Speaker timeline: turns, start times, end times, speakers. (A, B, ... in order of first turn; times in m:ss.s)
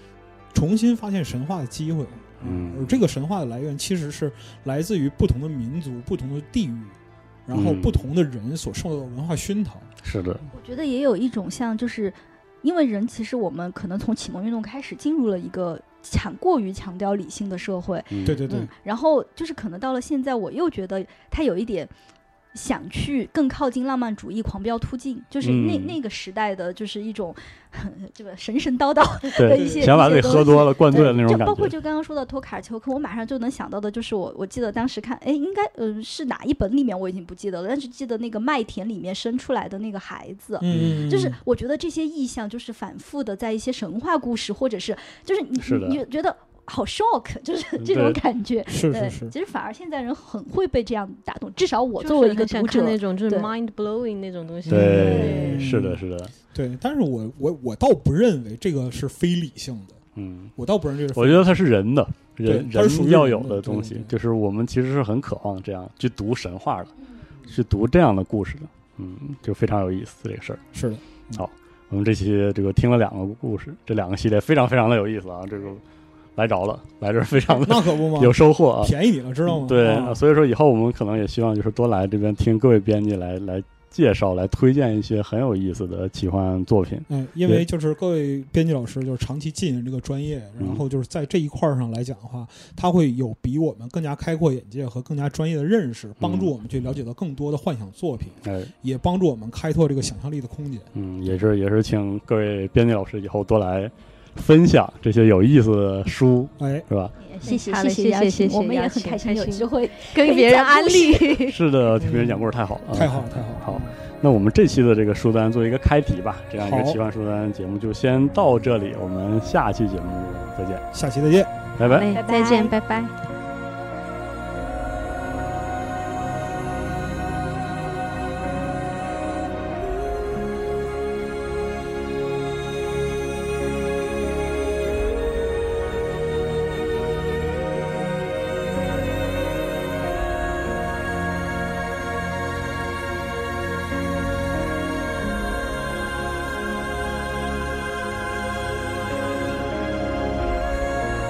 0:00.5-0:09.9 A
0:02.4-0:03.0 B
0:07.5-0:08.0 B
0:10.0-0:10.5 B
0:10.5-0:21.9 C
0:18.1-0:18.5 B
0:18.2-0:18.7 A
0:22.5-0:53.5 C
0:25.4-0:26.0 B
0:29.4-0:31.7 B
0:29.5-0:31.2 A
0:40.6-0:41.4 A
0:40.7-0:41.1 B
0:45.6-0:46.0 B
0:47.8-0:48.2 B
0:48.7-0:49.3 A
0:52.0-0:55.6 D
0:54.7-0:56.0 A
0:54.7-0:56.3 B
0:55.0-0:55.6 C
0:56.5-1:00.0 A
1:00.2-1:00.5 B
1:00.6-1:01.6 A
1:01.1-1:06.9 B
1:02.4-1:04.1 A
1:07.5-1:10.6 B
1:10.7-1:11.5 A
1:11.4-1:15.8 B
1:16.4-1:27.6 B
1:17.6-1:20.2 A
1:27.1-1:40.9 A
1:36.2-1:36.5 B
1:38.4-1:38.7 B
1:40.9-1:47.1 B
1:46.6-1:46.9 A
1:47.2-1:51.4 C
1:47.4-1:51.6 D
1:51.5-2:00.9 B
1:52.0-1:54.0 A
1:56.6-1:57.0 A
2:00.9-2:01.5 A
2:01.8-2:02.1 B
2:01.8-2:03.1 D
2:02.1-2:02.7 C